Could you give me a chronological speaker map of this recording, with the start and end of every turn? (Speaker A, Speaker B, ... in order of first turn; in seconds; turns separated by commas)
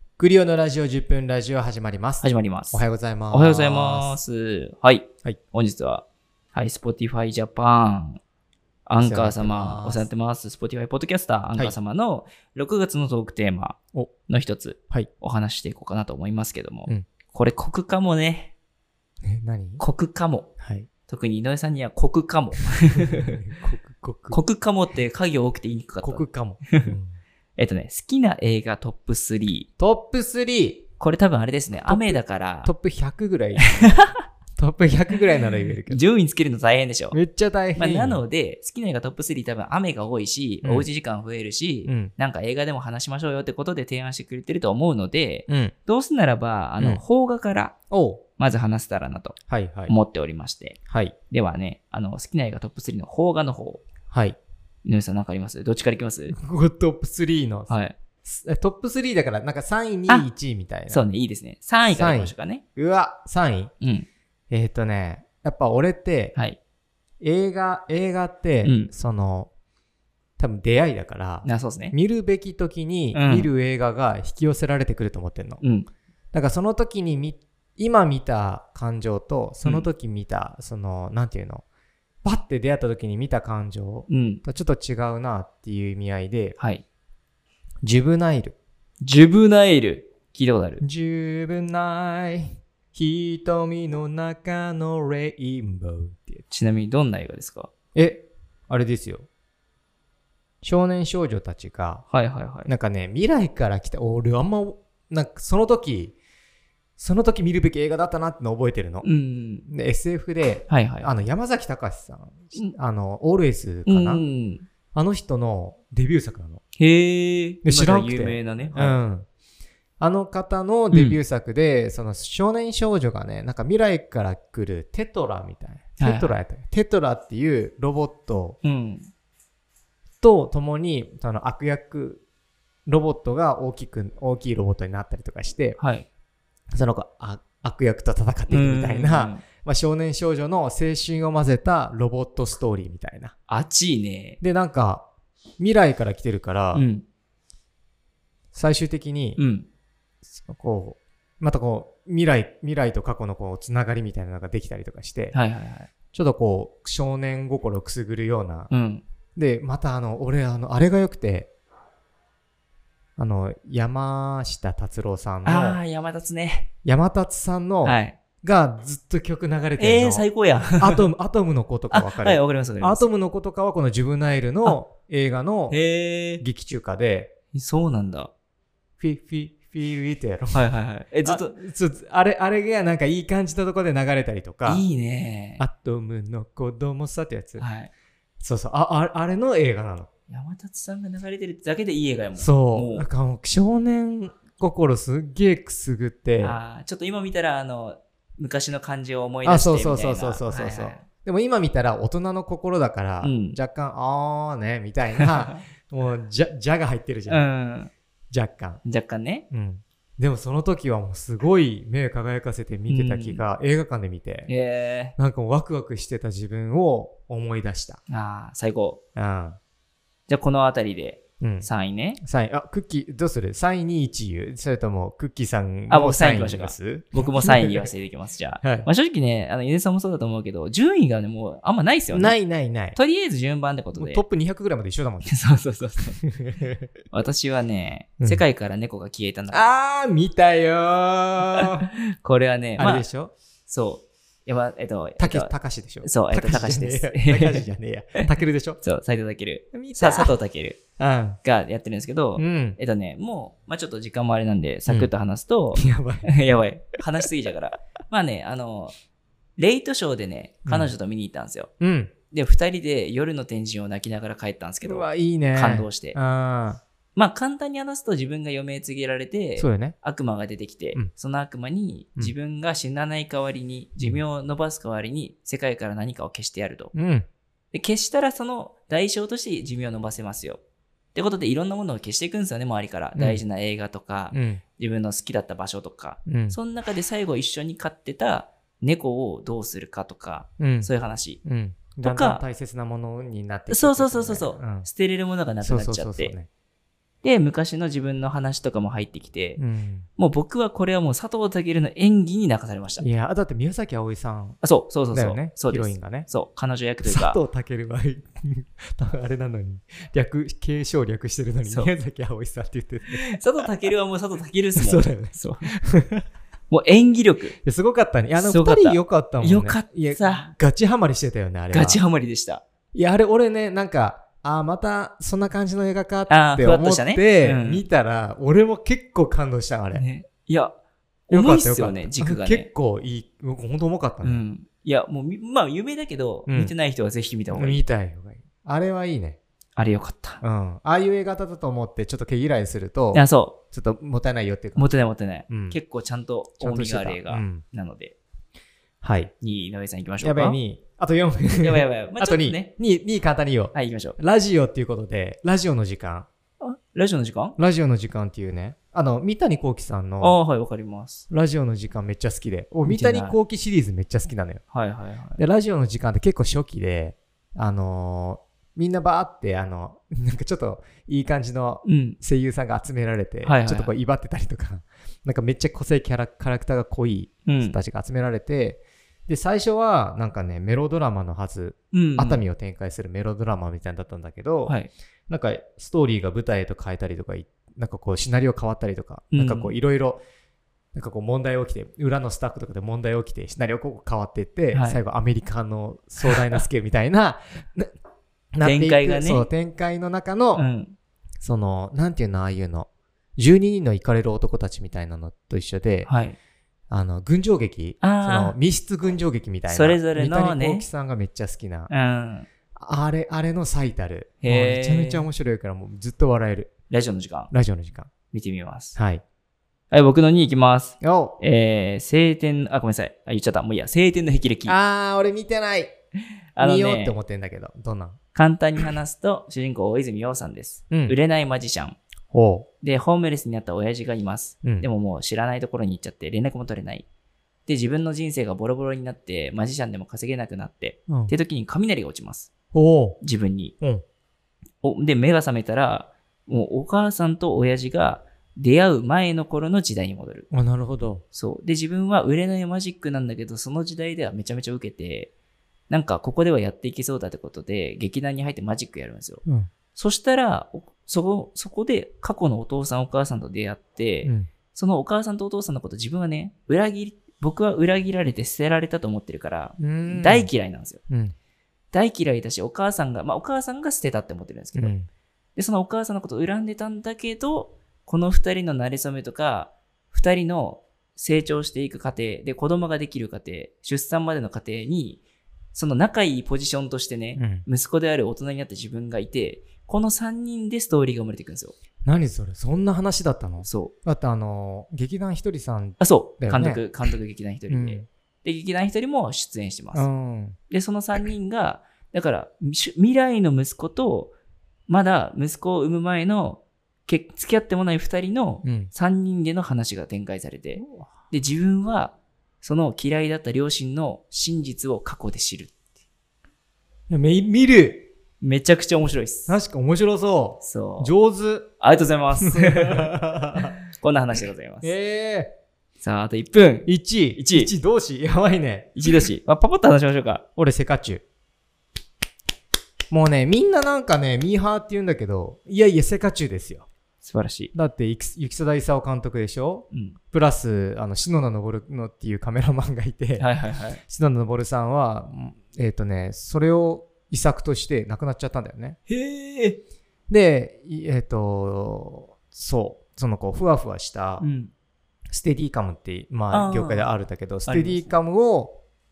Speaker A: 0.2-4.2, Speaker B: 2.2-8.2, Speaker B: 8.9-18.5, Speaker A: 9.0-10.1, Speaker A: 19.2-19.8, Speaker B: 19.8-20.5, Speaker A: 20.6-20.9, Speaker B: 21.1-23.3, Speaker A: 22.9-24.4, Speaker B: 24.3-26.9, Speaker A: 26.0-27.1, Speaker B: 27.6-29.7, Speaker A: 29.8-30.9, Speaker B: 31.0-32.7, Speaker A: 31.9-34.0, Speaker B: 33.8-34.2, Speaker A: 34.6-36.0, Speaker B: 35.9-37.1, Speaker A: 37.1-38.2, Speaker B: 37.8-47.7, Speaker A: 41.9-42.1, Speaker A: 45.5-45.7, Speaker A: 47.9-48.2, Speaker B: 48.4-49.4, Speaker A: 49.5-49.9, Speaker B: 49.9-50.8, Speaker A: 50.9-51.1, Speaker B: 51.3-53.8, Speaker A: 54.1-54.4, Speaker B: 54.8-56.3, Speaker A: 56.3-57.7, Speaker B: 57.7-58.0, Speaker A: 58.2-61.0, Speaker B: 60.9-62.6, Speaker A: 61.9-63.7, Speaker B: 63.8-64.1, Speaker A: 64.5-66.3, Speaker A: 67.2-69.5, Speaker B: 68.6-68.9, Speaker A: 70.4-75.6, Speaker B: 71.4-71.9, Speaker B: 73.1-73.5, Speaker B: 75.6-75.9, Speaker A: 76.3-81.6, Speaker A: 82.2-86.6, Speaker B: 84.1-84.4, Speaker B: 86.6-86.8, Speaker A: 87.8-88.5, Speaker B: 89.0-90.8, Speaker A: 90.8-96.4, Speaker B: 96.5-97.7, Speaker A: 97.9-99.3, Speaker A: 100.6-102.0, Speaker B: 102.1-102.7, Speaker A: 102.7-106.1, Speaker A: 107.0-109.0, Speaker B: 109.0-109.7, Speaker A: 109.7-114.2, Speaker B: 110.7-111.1, Speaker B: 113.8-114.6, Speaker A: 114.9-116.6, Speaker B: 116.8-119.0, Speaker A: 117.6-119.3, Speaker A: 120.0-128.6, Speaker B: 120.9-121.2, Speaker B: 126.0-126.3, Speaker B: 128.6-129.1, Speaker A: 130.2-132.2, Speaker A: 132.8-135.8, Speaker B: 135.8-136.1, Speaker A: 136.7-143.3, Speaker B: 138.5-139.4, Speaker B: 143.5-144.4, Speaker A: 144.4-145.1, Speaker A: 145.6-146.8, Speaker B: 146.7-147.0, Speaker A: 148.5-149.4, Speaker B: 149.4-149.7, Speaker A: 150.2-155.3, Speaker B: 155.3-155.9, Speaker A: 156.1-158.7, Speaker B: 158.7-159.0, Speaker A: 159.3-161.5, Speaker A: 163.2-165.8, Speaker B: 165.4-166.7, Speaker A: 166.8-170.2, Speaker B: 167.8-168.2, Speaker B: 169.8-171.0, Speaker A: 170.8-175.8, Speaker B: 171.9-173.1, Speaker B: 175.7-176.4, Speaker A: 176.4-177.3, Speaker B: 177.5-178.3, Speaker A: 179.0-180.7, Speaker B: 180.5-181.5, Speaker A: 181.2-184.8, Speaker B: 184.7-185.6, Speaker A: 185.6-187.7, Speaker B: 187.6-187.9, Speaker A: 188.4-190.1, Speaker B: 190.3-193.1, Speaker A: 192.4-196.6, Speaker B: 196.4-201.0, Speaker A: 199.4-207.4, Speaker B: 203.2-203.6, Speaker B: 205.2-205.6, Speaker B: 207.3-207.9, Speaker A: 208.3-208.8, Speaker B: 208.8-209.4, Speaker A: 209.5-214.5, Speaker B: 212.9-213.4, Speaker B: 214.5-215.1, Speaker A: 215.2-218.0, Speaker B: 218.1-219.0, Speaker A: 219.2-219.6, Speaker B: 220.3-222.2, Speaker A: 221.4-221.7, Speaker A: 222.2-227.9, Speaker B: 225.9-232.4, Speaker A: 228.6-228.9, Speaker A: 232.1-233.0, Speaker B: 232.9-234.2, Speaker A: 233.9-235.3, Speaker B: 235.2-236.2, Speaker A: 236.1-236.9, Speaker B: 237.1-239.7, Speaker A: 239.5-241.9, Speaker B: 241.6-243.1, Speaker A: 242.8-243.3, Speaker B: 243.7-247.6, Speaker A: 245.2-248.8, Speaker B: 248.8-250.8, Speaker A: 249.7-250.3, Speaker A: 251.0-251.4, Speaker B: 251.4-258.9, Speaker A: 252.4-252.8, Speaker A: 255.8-256.3, Speaker B: 259.6-261.7, Speaker A: 260.6-260.9, Speaker A: 261.8-262.1, Speaker B: 262.3-266.2, Speaker A: 264.8-266.8, Speaker B: 267.1-276.9, Speaker A: 269.6-269.9, Speaker A: 276.9-277.3, Speaker B: 277.7-280.6, Speaker B: 281.1-291.4, Speaker A: 283.1-283.4, Speaker A: 284.3-284.6, Speaker A: 286.2-286.6, Speaker A: 290.6-290.9, Speaker A: 291.4-294.9, Speaker B: 292.0-292.4, Speaker B: 293.7-296.3, Speaker A: 295.6-296.5, Speaker B: 297.2-299.6, Speaker A: 299.6-300.1, Speaker B: 300.2-303.0, Speaker A: 303.0-306.3, Speaker B: 304.6-307.4, Speaker A: 307.0-313.3, Speaker B: 311.6-311.9, Speaker B: 313.1-315.7, Speaker A: 314.8-316.2, Speaker B: 316.7-317.6, Speaker A: 317.6-322.0, Speaker B: 318.4-320.5, Speaker B: 321.7-322.6, Speaker A: 322.9-330.0, Speaker B: 326.3-327.9, Speaker B: 329.9-330.8, Speaker B: 331.3-332.7, Speaker A: 331.3-334.4, Speaker B: 334.2-337.8, Speaker A: 336.5-336.7, Speaker A: 337.5-339.4, Speaker B: 339.8-340.4, Speaker A: 340.4-344.9, Speaker B: 343.1-343.6, Speaker B: 344.8-348.1, Speaker A: 345.5-345.8, Speaker A: 346.6-347.6, Speaker A: 349.0-349.3, Speaker B: 349.4-350.6, Speaker A: 350.2-356.3, Speaker B: 351.6-352.7, Speaker B: 353.7-354.2, Speaker B: 356.6-357.6, Speaker A: 357.6-360.4, Speaker B: 360.2-361.2, Speaker A: 361.3-364.6, Speaker B: 362.9-363.4, Speaker B: 364.7-365.4, Speaker A: 365.4-384.8, Speaker B: 371.8-372.2, Speaker B: 373.4-373.9, Speaker B: 377.4-377.8, Speaker B: 381.9-382.4, Speaker A: 385.3-390.2, Speaker B: 389.3-389.7, Speaker A: 390.9-397.9, Speaker B: 394.7-395.0, Speaker A: 398.5-400.7, Speaker B: 398.6-399.5, Speaker B: 400.6-400.9, Speaker A: 401.4-406.1, Speaker B: 406.1-406.4, Speaker A: 406.9-411.9, Speaker B: 408.0-408.6, Speaker B: 409.7-410.9, Speaker B: 411.9-412.5, Speaker A: 412.8-416.7, Speaker B: 414.4-415.3, Speaker B: 416.9-417.5, Speaker A: 417.5-418.1, Speaker B: 418.3-419.0, Speaker A: 418.9-419.2, Speaker B: 419.9-424.7, Speaker A: 421.0-421.4, Speaker A: 424.6-425.9, Speaker B: 426.5-427.1, Speaker A: 426.6-428.2, Speaker B: 428.3-432.0, Speaker A: 430.9-431.2, Speaker A: 432.3-432.7, Speaker B: 432.8-437.1, Speaker A: 434.6-434.9, Speaker B: 437.6-442.5, Speaker A: 441.1-441.3, Speaker A: 442.7-443.2, Speaker B: 443.2-443.7, Speaker B: 444.8-450.5, Speaker A: 450.5-451.2, Speaker B: 451.3-455.3, Speaker B: 455.9-459.4, Speaker B: 459.9-471.0, Speaker A: 464.2-464.5, Speaker A: 469.8-470.5, Speaker A: 471.1-471.3, Speaker B: 471.9-474.9, Speaker A: 474.8-475.1, Speaker B: 475.6-485.2, Speaker B: 485.7-491.7, Speaker A: 487.4-487.7, Speaker A: 492.0-496.9, Speaker B: 493.6-493.9, Speaker B: 496.0-500.1, Speaker A: 497.7-498.1, Speaker A: 499.9-500.6, Speaker B: 500.7-504.3, Speaker B: 504.9-515.7, Speaker A: 508.6-508.9, Speaker A: 510.8-511.1, Speaker A: 517.1-518.1, Speaker B: 518.4-519.5, Speaker A: 519.5-521.7, Speaker B: 520.6-521.1, Speaker B: 521.8-524.9, Speaker A: 522.4-523.8, Speaker A: 524.8-525.5, Speaker B: 526.0-527.7, Speaker A: 526.9-529.3, Speaker B: 529.0-530.4, Speaker A: 530.6-531.2, Speaker A: 533.1-536.9, Speaker B: 537.2-537.7, Speaker A: 537.7-543.5, Speaker B: 539.9-540.2, Speaker B: 543.4-544.0, Speaker A: 544.1-549.0, Speaker B: 549.1-549.8, Speaker A: 550.3-554.5, Speaker B: 554.4-554.7, Speaker A: 555.3-558.8, Speaker B: 556.5-557.1, Speaker B: 557.6-558.1